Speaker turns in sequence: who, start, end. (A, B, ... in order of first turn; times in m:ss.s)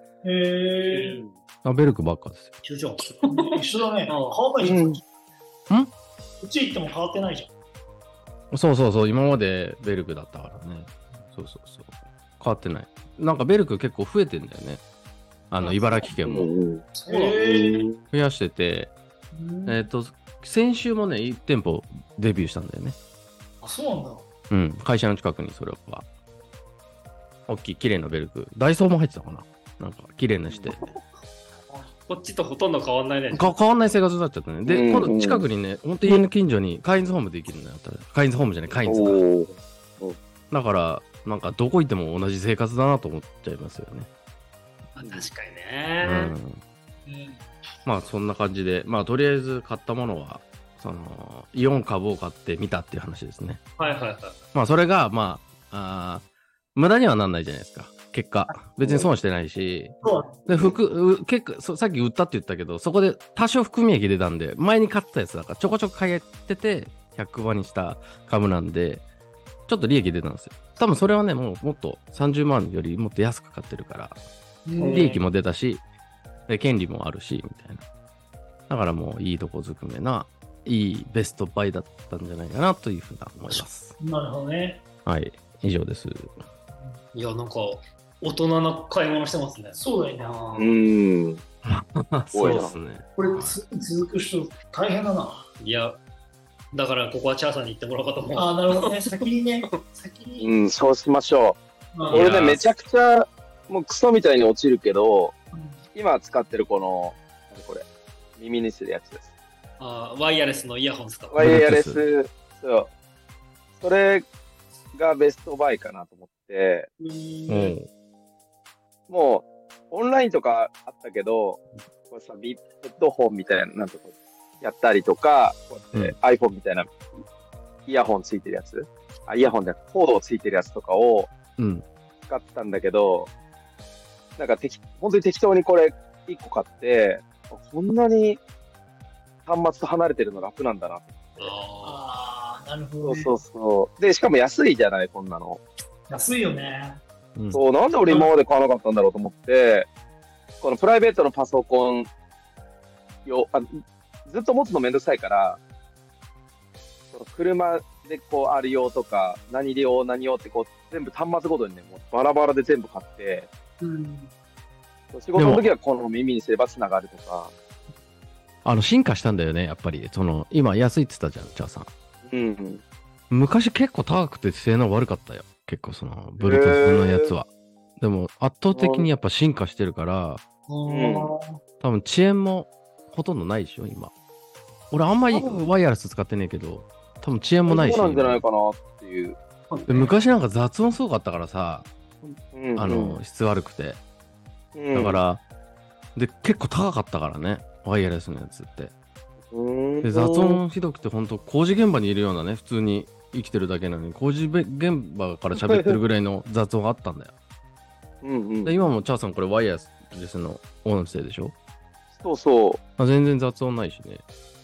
0:00.2-0:01.2 A
0:00.9-0:01.3 B
0:01.6-0:02.5 C
0:02.6-0:04.4 B
0:03.3-0:05.1 A
0:04.6-0:05.0 D
0:06.4-0:07.5 A
0:08.5-0:14.8 C
0:15.5-0:16.5 C
0:15.6-0:16.1 A
0:16.3-0:18.0 D
0:17.0-0:17.3 B
0:17.0-0:17.9 A
0:18.1-0:18.9 C
0:19.3-0:19.8 A
0:19.7-0:23.0 C
0:23.6-0:24.3 A
0:24.5-0:26.1 C
0:27.5-0:30.8 C
0:30.5-0:30.8 D
0:32.1-0:33.6 B
0:33.3-0:39.2 C
0:34.7-0:35.4 D
0:38.9-0:40.2 D
0:40.5-0:44.1 C
0:45.0-0:46.3 B
0:45.0-0:45.3 D
0:46.0-0:46.6 C
0:47.0-0:47.4 A
0:47.8-0:53.6 C
0:53.8-0:54.4 B
0:54.5-0:56.2 C
0:56.8-1:09.0 C
0:58.8-0:59.1 D
1:00.0-1:00.4 A
1:09.7-1:14.2 C
1:14.7-1:15.1 A
1:14.8-1:15.2 B
1:14.9-1:15.8 C
1:16.5-1:17.8 C
1:18.7-1:24.0 C
1:24.0-1:24.8 A
1:25.1-1:26.3 C
1:26.8-1:27.0 A
1:27.1-1:30.7 B
1:29.8-1:30.7 A
1:30.6-1:31.4 D
1:31.6-1:33.6 C
1:32.3-1:32.7 D
1:33.2-1:35.5 A
1:35.6-1:36.0 B
1:36.7-1:39.8 B
1:38.4-1:40.5 A
1:40.4-1:41.6 D
1:41.9-1:42.2 A
1:42.0-1:42.6 B
1:42.1-1:45.4 D
1:45.5-1:45.8 A
1:45.9-1:47.9 D
1:48.4-1:49.2 D
1:49.8-1:51.4 B
1:51.3-1:52.9 D
1:51.4-1:52.0 C
1:53.8-1:54.3 D
1:54.9-1:56.9 D
1:57.0-1:57.7 B
1:57.5-1:57.9 C
1:59.1-2:07.0 D
2:07.9-2:11.3 D
2:11.6-2:11.8 C
2:12.3-2:13.3 D
2:14.4-2:18.4 D
2:19.5-2:21.5 D
2:21.4-2:22.0 B
2:21.8-2:23.3 A
2:23.0-2:25.6 D
2:26.1-2:27.0 A
2:27.4-2:27.6 C
2:27.5-2:29.9 D
2:28.1-2:28.3 A
2:30.6-2:32.1 D
2:33.3-2:35.6 D
2:37.1-2:43.5 D
2:43.8-2:44.3 A
2:45.1-2:47.5 D
2:45.4-2:45.7 C
2:48.6-2:51.9 C
2:52.3-2:52.8 D
2:53.3-2:57.5 C
2:56.4-2:57.3 D
2:58.0-3:00.4 C
2:58.7-2:59.1 D
3:00.7-3:01.6 A
3:00.9-3:01.3 D
3:01.8-3:04.1 C
3:04.9-3:08.4 C
3:05.3-3:05.6 D
3:07.7-3:09.4 D
3:09.7-3:10.1 B
3:09.9-3:11.9 C
3:12.2-3:13.2 D
3:12.8-3:14.0 C
3:14.8-3:15.2 D
3:14.9-3:15.4 C
3:16.2-3:18.9 C
3:19.5-3:20.6 D
3:20.0-3:27.3 C
3:25.6-3:25.9 D
3:28.2-3:28.8 D
3:28.6-3:31.5 C
3:32.2-3:32.8 D
3:33.0-3:34.2 C